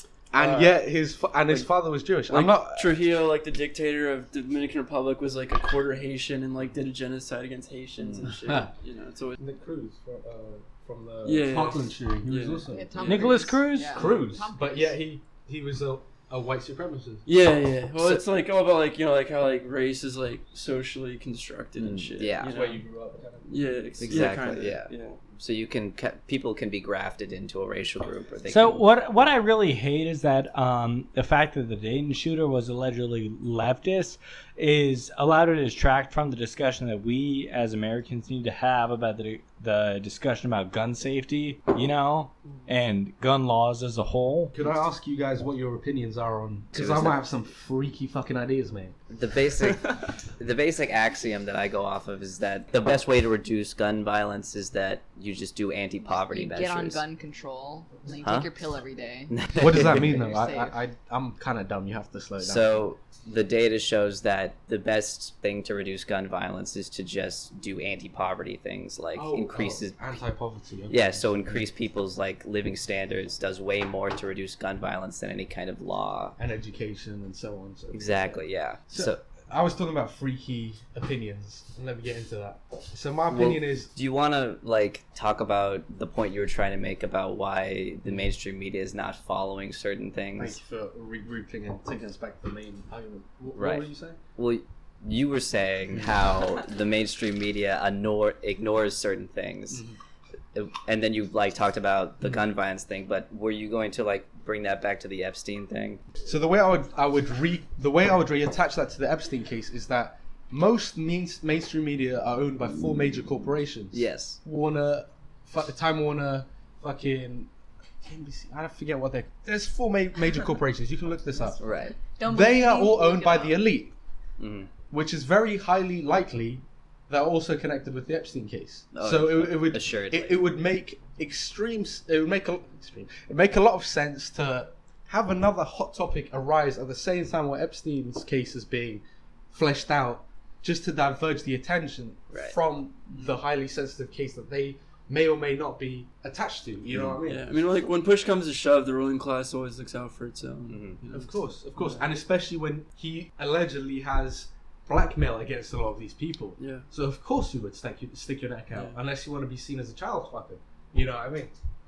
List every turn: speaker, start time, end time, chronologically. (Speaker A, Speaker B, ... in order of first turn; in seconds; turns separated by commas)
Speaker A: 0.3-3.0, Speaker B: 0.3-0.8, Speaker B: 2.3-9.4, Speaker C: 8.0-8.2, Speaker A: 9.4-13.1, Speaker B: 11.2-13.5, Speaker D: 12.7-15.0, Speaker E: 13.1-14.0, Speaker A: 13.9-17.2, Speaker B: 17.2-22.8, Speaker C: 21.8-22.5, Speaker A: 22.4-23.5, Speaker B: 23.4-25.2, Speaker A: 24.0-24.4, Speaker C: 24.0-28.8, Speaker E: 28.5-44.5, Speaker A: 44.5-49.0, Speaker C: 46.7-47.2, Speaker C: 49.1-57.0, Speaker D: 56.1-60.8, Speaker C: 58.2-58.5, Speaker C: 59.3-60.2, Speaker A: 59.6-62.7, Speaker C: 62.4-70.0, Speaker A: 69.1-71.6, Speaker C: 70.9-76.3, Speaker A: 76.4-83.9, Speaker C: 77.9-79.2, Speaker C: 83.3-90.6, Speaker A: 90.4-94.2, Speaker C: 93.5-93.8, Speaker C: 94.4-99.8, Speaker A: 99.7-100.0, Speaker C: 100.5-106.0, Speaker A: 106.2-117.5, Speaker C: 113.9-114.4, Speaker A: 118.0-121.6, Speaker D: 121.3-123.7, Speaker C: 121.6-122.0, Speaker A: 122.2-123.9, Speaker C: 124.4-124.7, Speaker A: 124.9-147.4, Speaker C: 128.9-130.4, Speaker C: 146.9-147.2, Speaker B: 147.2-152.1, Speaker C: 150.7-151.0, Speaker A: 151.1-161.5, Speaker B: 156.6-156.8, Speaker B: 158.7-159.0